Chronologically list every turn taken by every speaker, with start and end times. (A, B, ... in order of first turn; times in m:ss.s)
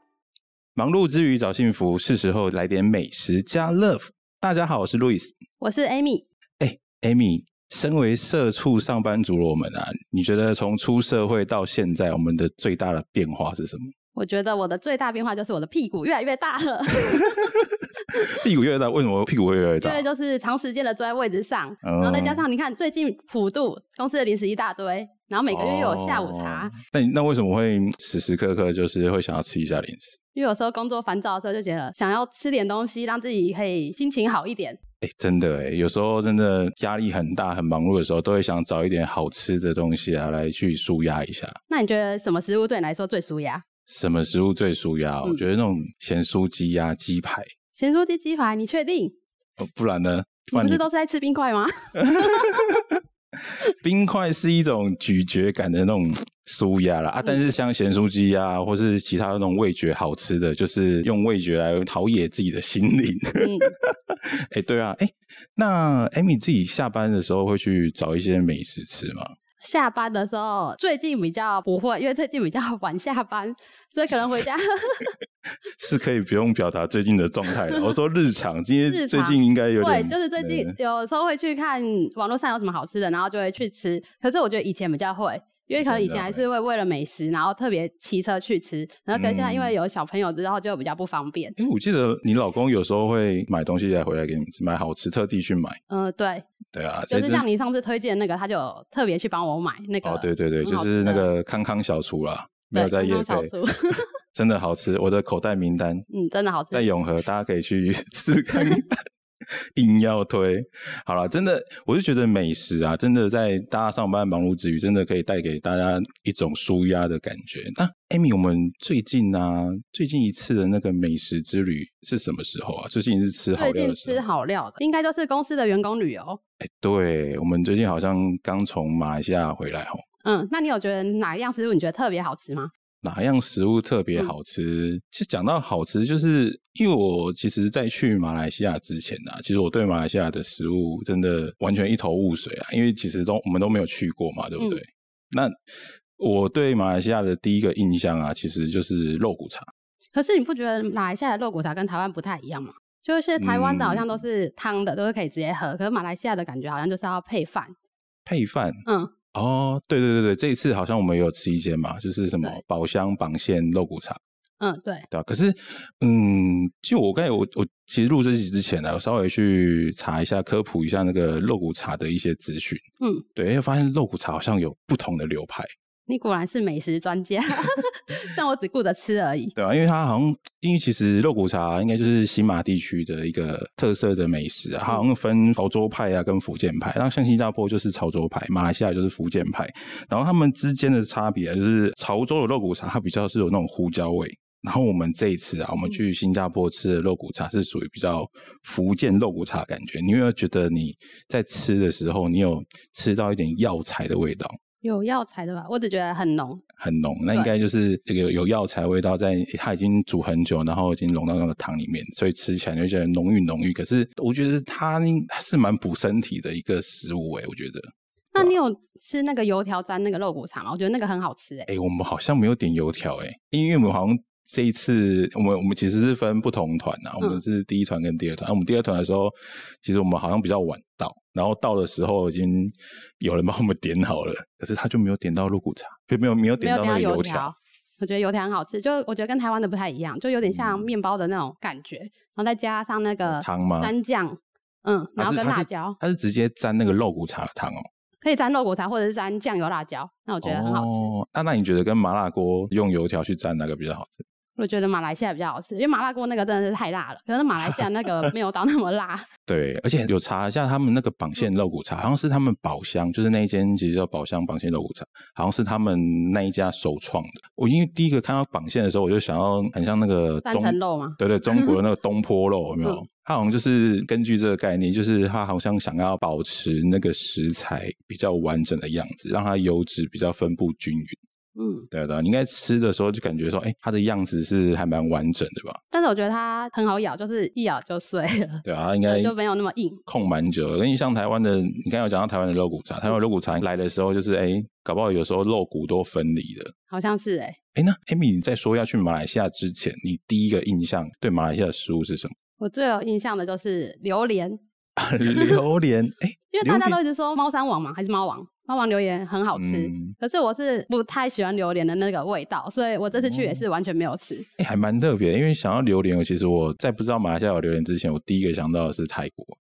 0:00.8-0:05.4 A
0:05.6-0:06.2 B
0:06.6-0:13.9 A
0:14.2-0:17.5 B
0:18.2-0:20.1 A
0:19.8-0:26.7 B
0:21.8-0:22.4 A
0:25.5-0:30.2 A
0:30.3-0:34.8 B
0:35.0-0:41.6 A
0:41.7-0:43.6 B
0:43.9-0:47.5 A
0:47.7-0:49.2 B
0:49.6-0:50.8 A
0:50.5-0:52.5 B
0:52.0-0:52.9 A
0:53.6-1:09.3 A
0:57.2-0:57.5 B
1:03.4-1:03.7 B
1:09.6-1:15.1 B
1:14.1-1:14.4 A
1:15.8-1:20.7 A
1:18.9-1:31.6 B
1:25.8-1:26.4 A
1:29.1-1:29.8 A
1:31.6-1:35.8 A
1:35.9-1:36.5 B
1:36.7-1:37.4 A
1:37.1-1:41.3 B
1:40.0-1:43.5 A
1:42.7-1:44.0 B
1:44.3-1:46.0 A
1:46.1-1:46.9 B
1:46.7-1:49.0 A
1:49.8-2:04.2 A
2:03.6-2:06.4 B
2:06.6-2:10.0 A
2:10.2-2:12.7 B
2:13.0-2:25.6 A
2:26.2-2:29.7 A
2:30.1-2:37.7 B
2:33.4-2:34.2 A
2:38.2-2:44.2 A
2:38.9-2:39.1 B
2:44.6-2:45.1 B
2:45.1-2:52.8 A
2:53.4-2:55.7 A
2:56.1-2:59.5 B
2:59.6-3:24.5 A
3:24.8-3:26.6 B
3:26.8-3:38.6 A
3:38.3-3:41.7 B
3:41.7-3:57.5 A
3:56.6-4:06.0 B
4:00.4-4:00.9 A
4:03.2-4:03.9 A
4:05.2-4:07.9 A
4:08.2-4:11.1 B
4:10.4-4:14.2 A
4:14.6-4:19.3 B
4:19.5-4:41.2 A
4:30.4-4:31.7 B
4:41.6-4:41.9 B
4:41.9-4:45.8 A
4:45.9-4:50.0 B
4:48.6-4:49.4 A
4:50.1-4:56.7 A
4:56.9-4:57.6 B
4:57.8-5:02.4 A
5:02.6-5:04.6 B
5:05.0-5:07.0 A
5:05.4-5:05.6 B
5:06.5-5:14.5 B
5:09.5-5:10.2 A
5:13.1-5:13.7 A
5:14.6-5:19.6 A